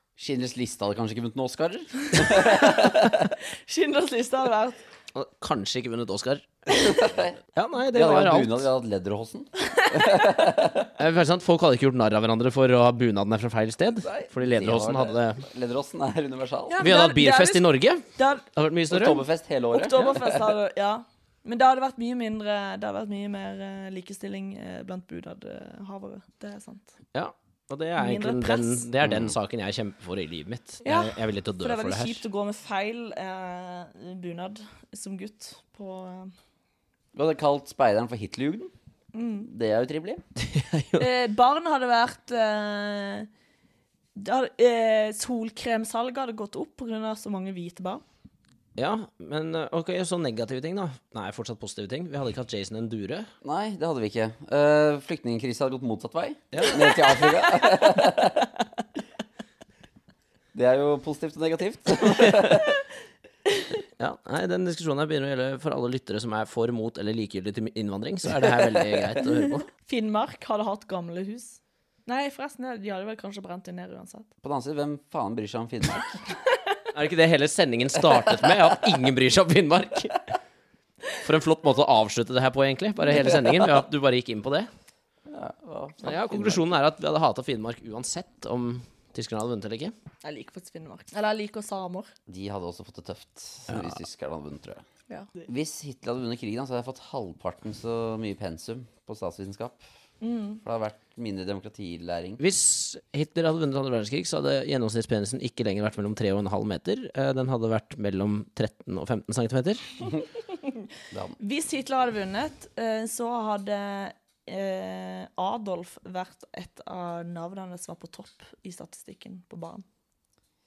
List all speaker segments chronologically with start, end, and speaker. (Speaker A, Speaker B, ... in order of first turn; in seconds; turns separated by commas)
Speaker A: 0.2-3.3, Speaker B: 2.1-4.8, Speaker C: 5.1-8.7, Speaker A: 6.7-7.4, Speaker A: 7.9-10.9, Speaker B: 9.6-10.6, Speaker C: 11.0-15.4, Speaker A: 14.1-16.9, Speaker B: 16.7-18.5, Speaker C: 16.8-19.2, Speaker A: 18.9-20.5, Speaker B: 19.7-26.9, Speaker C: 27.1-32.2, Speaker B: 28.0-28.9, Speaker A: 29.0-29.3, Speaker B: 30.8-36.3, Speaker A: 37.1-38.7, Speaker B: 39.1-39.5, Speaker A: 39.5-40.2, Speaker C: 40.4-41.1, Speaker B: 41.0-43.3, Speaker B: 44.1-48.0, Speaker C: 48.8-53.3, Speaker A: 53.4-58.5, Speaker C: 56.5-57.0, Speaker A: 60.5-62.8, Speaker C: 64.0-69.7, Speaker B: 69.7-74.3, Speaker A: 74.4-76.1, Speaker C: 76.9-80.3, Speaker C: 81.2-84.7, Speaker A: 85.3-86.6, Speaker C: 86.0-89.9, Speaker B: 90.2-92.1, Speaker A: 92.3-94.8, Speaker C: 93.7-94.0, Speaker A: 95.5-99.8, Speaker B: 100.2-100.6, Speaker A: 100.6-102.4, Speaker C: 102.4-109.8, Speaker B: 111.4-119.8